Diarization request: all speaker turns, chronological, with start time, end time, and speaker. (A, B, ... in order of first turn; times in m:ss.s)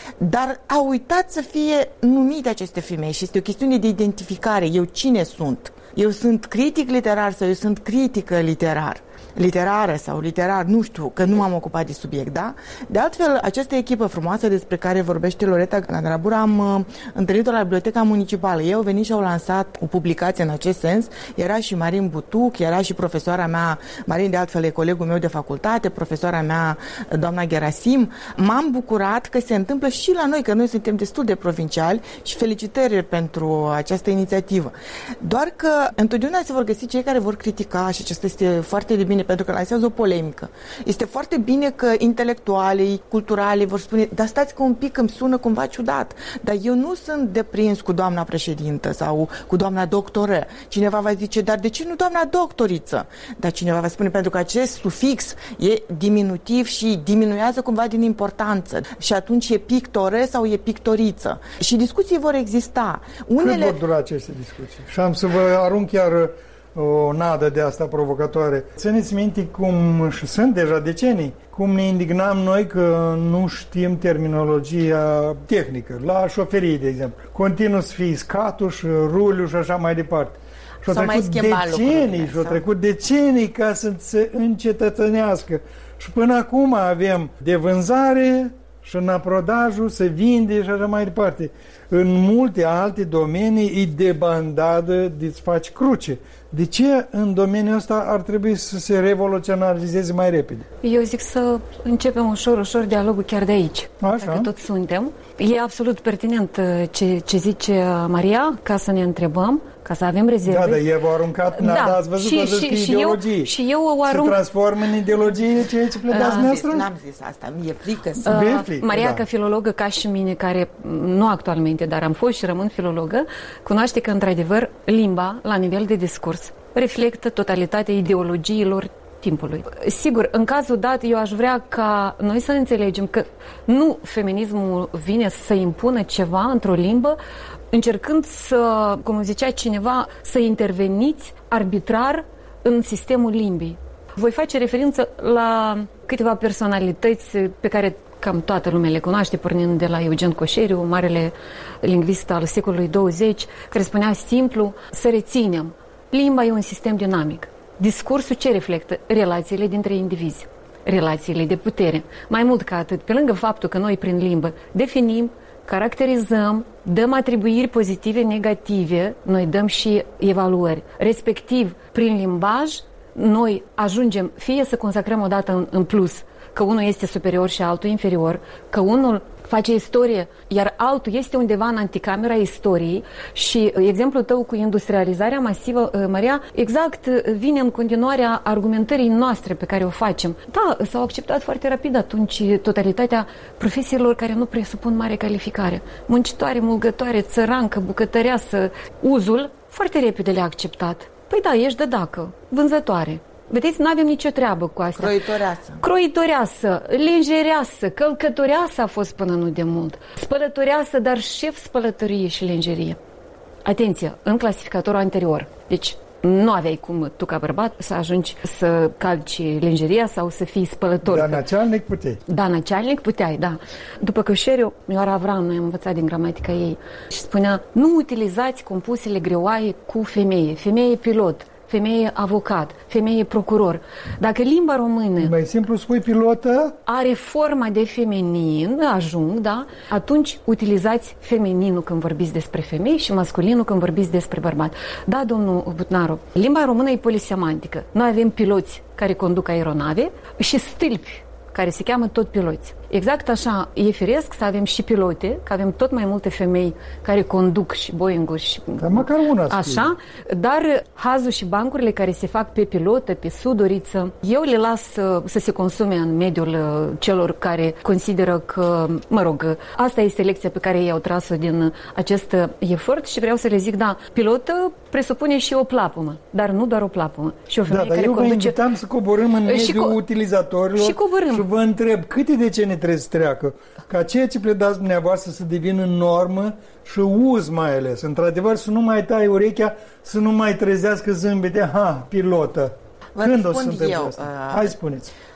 0:00.2-1:03.8 A
1:03.4-1:40.7 B
1:20.9-1:22.6 A
1:40.8-1:50.8 C
1:44.0-1:44.5 B
1:50.4-1:53.5 B
1:51.6-1:54.4 C
1:54.1-1:56.9 B
1:56.1-1:58.5 A
1:56.1-1:56.5 C
1:58.2-1:59.2 B
1:58.3-2:17.2 C
2:17.7-3:25.2 C
3:24.9-3:25.8 A
3:25.8-3:33.0 C
3:33.6-3:41.4 C
3:41.0-3:42.2 B
3:42.3-3:55.3 C
3:55.2-3:56.8 B
3:56.9-4:38.6 C
4:18.8-4:19.9 B
4:37.7-4:55.1 B
4:39.4-4:40.0 C
4:40.8-4:41.5 C
4:53.2-4:54.7 A